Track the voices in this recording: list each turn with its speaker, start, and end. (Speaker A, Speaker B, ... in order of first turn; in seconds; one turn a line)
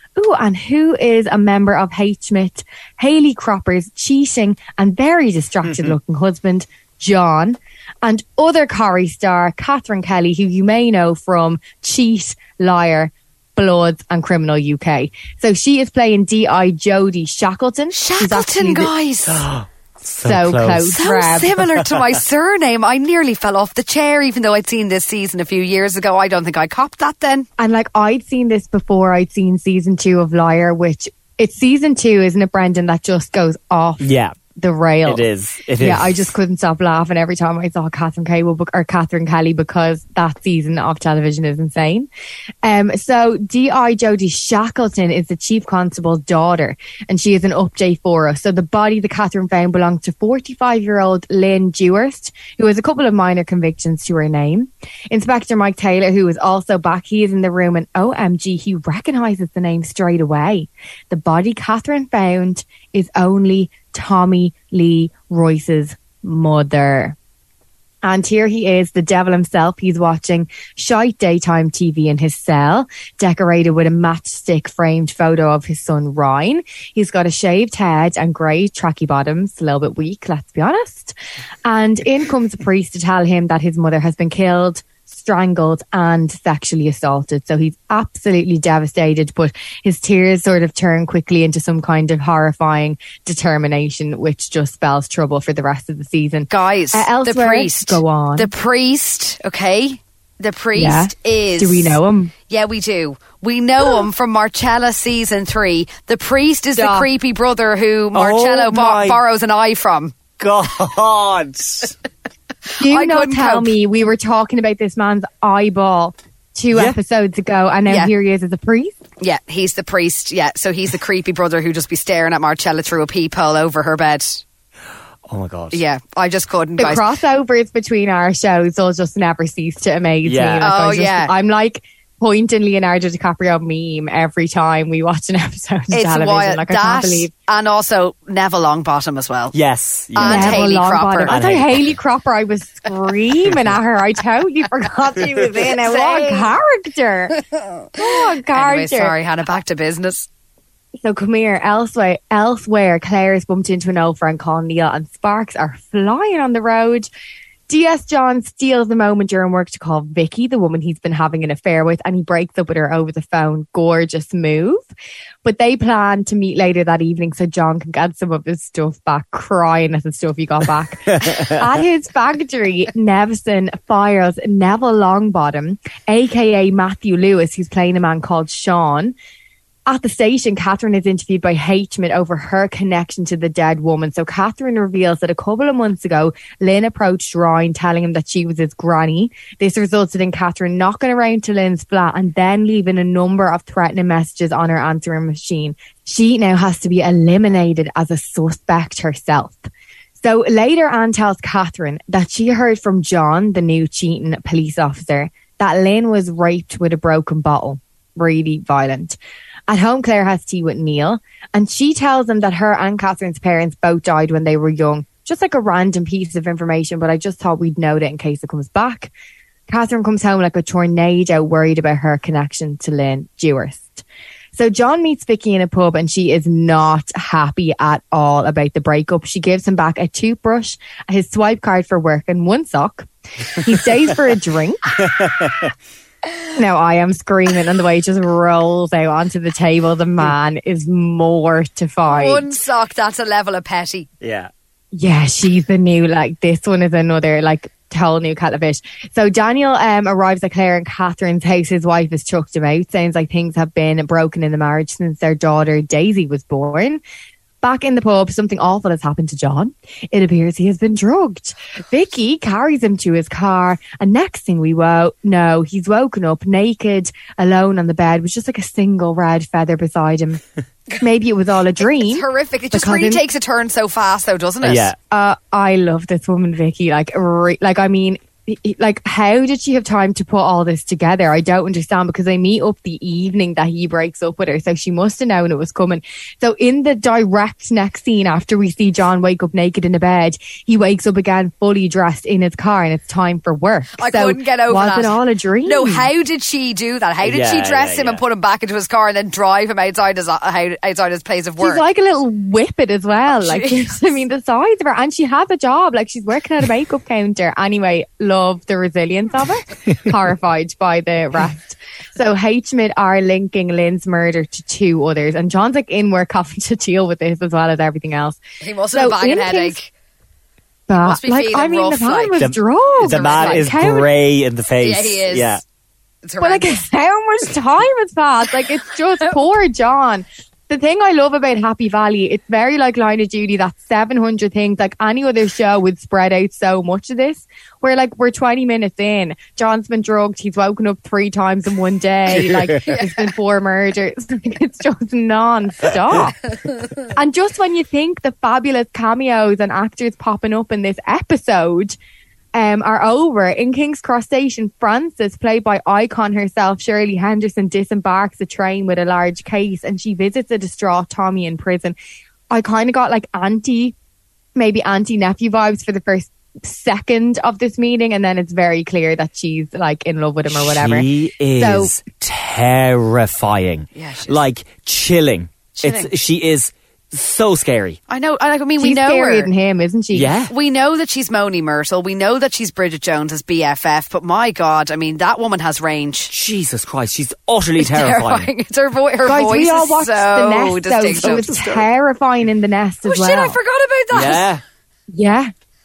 Speaker A: 0.1-18.9
Speaker B: 17.9-19.4
Speaker C: 19.3-21.0
Speaker A: 20.2-21.5
Speaker B: 20.9-27.4
Speaker A: 27.6-35.2
Speaker C: 34.0-34.4
Speaker C: 35.0-36.3
Speaker A: 35.8-42.1
Speaker A: 42.6-67.2
Speaker A: 68.0-98.5
Speaker B: 96.5-110.2
Speaker A: 100.8-102.3
Speaker A: 106.8-107.1
Speaker C: 108.1-109.2
Speaker C: 110.4-112.0
Speaker A: 112.8-119.0
Speaker B: 112.8-113.8
Speaker B: 117.8-118.1
Speaker B: 119.2-124.4
Speaker C: 125.3-125.8
Speaker B: 125.7-127.0
Speaker A: 126.8-137.3
Speaker C: 130.2-130.7
Speaker B: 130.6-131.3
Speaker B: 135.9-139.5
Speaker C: 139.5-140.7
Speaker B: 140.1-141.4
Speaker A: 140.2-147.4
Speaker C: 141.3-141.9
Speaker B: 145.8-146.5
Speaker A: 147.9-149.1
Speaker B: 148.5-150.3
Speaker A: 151.0-157.1
Speaker A: 157.7-164.8
Speaker A: 165.4-179.1
Speaker A: 179.8-199.6
Speaker A: 200.2-209.2
Speaker A: 209.7-219.1
Speaker A: 219.7-224.0
Speaker A: 224.5-234.9
Speaker C: 235.0-235.7
Speaker A: 236.5-242.4
Speaker B: 242.1-244.1
Speaker C: 244.2-244.5
Speaker A: 244.9-257.0
Speaker A: 257.6-270.4
Speaker A: 271.0-273.2
Speaker B: 271.9-274.9
Speaker C: 274.6-275.0
Speaker A: 275.1-296.1
Speaker B: 294.0-301.8
Speaker C: 297.2-298.2
Speaker A: 301.6-318.4
Speaker B: 303.3-304.2
Speaker B: 318.6-319.9
Speaker A: 318.9-319.8
Speaker A: 320.9-324.1
Speaker B: 321.0-324.0
Speaker C: 322.4-325.6
Speaker B: 324.8-325.6
Speaker B: 326.2-326.8
Speaker A: 326.4-346.4
Speaker A: 347.1-351.9
Speaker A: 352.5-361.9
Speaker A: 362.5-363.9
Speaker A: 364.6-371.9
Speaker C: 370.5-378.0
Speaker B: 373.9-374.4
Speaker B: 375.8-376.1
Speaker B: 378.1-379.5
Speaker A: 378.8-380.3
Speaker C: 380.1-380.5
Speaker B: 380.5-386.3
Speaker C: 386.3-388.5
Speaker B: 387.8-391.5
Speaker A: 389.2-393.6
Speaker C: 391.1-391.9
Speaker B: 393.0-394.5
Speaker C: 394.1-394.6
Speaker A: 395.1-395.5